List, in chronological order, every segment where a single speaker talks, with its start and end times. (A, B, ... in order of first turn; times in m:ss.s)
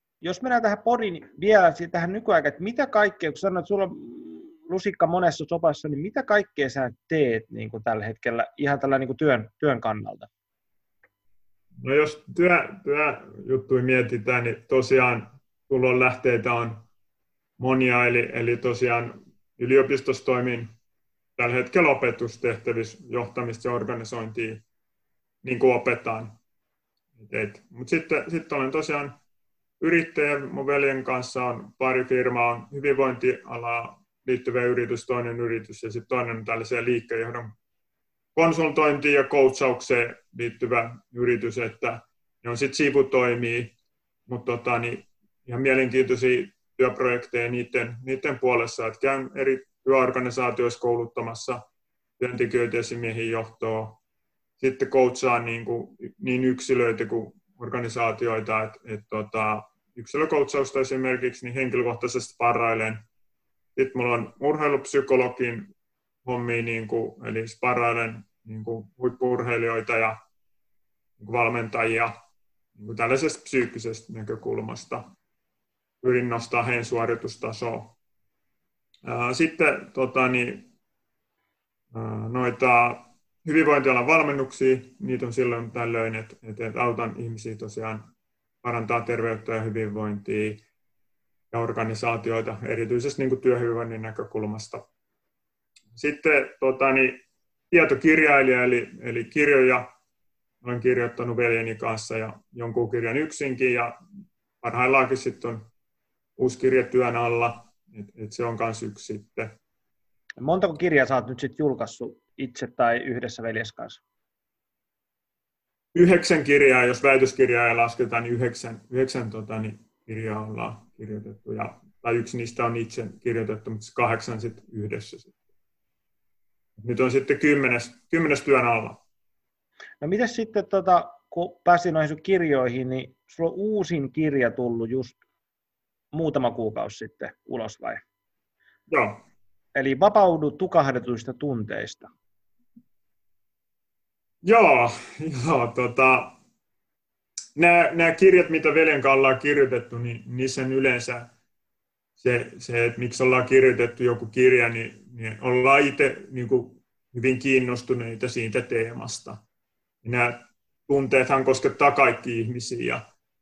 0:00.2-0:10.3 A
0:11.8-0:16.8 B
0:17.6-0:20.7 B
0:21.4-0:24.6 B
0:25.4-0:26.3 B
0:27.2-0:29.1 B
0:29.8-0:37.5 B
0:38.4-0:43.7 B
0:44.3-0:51.6 B
0:52.2-0:54.0 B
0:54.6-1:03.0 B
1:03.8-1:05.7 B
1:06.2-1:10.2 B
1:11.2-1:12.1 B
1:12.8-1:15.0 B
1:16.0-1:17.9 B
1:19.0-1:20.7 B
1:21.9-1:28.1 B
1:28.6-1:30.6 B
1:31.5-1:34.8 B
1:35.9-1:39.8 B
1:40.6-1:43.9 B
1:44.6-1:45.6 B
1:46.4-1:49.5 B
1:50.4-1:54.0 A
1:55.9-2:05.4 B
2:06.8-2:09.0 B
2:10.0-2:15.2 A
2:16.1-2:18.0 A
2:18.9-2:19.2 B
2:19.8-2:22.1 A
2:24.4-2:26.4 B
2:27.6-2:31.3 B
2:32.2-2:39.4 B
2:40.0-2:43.0 B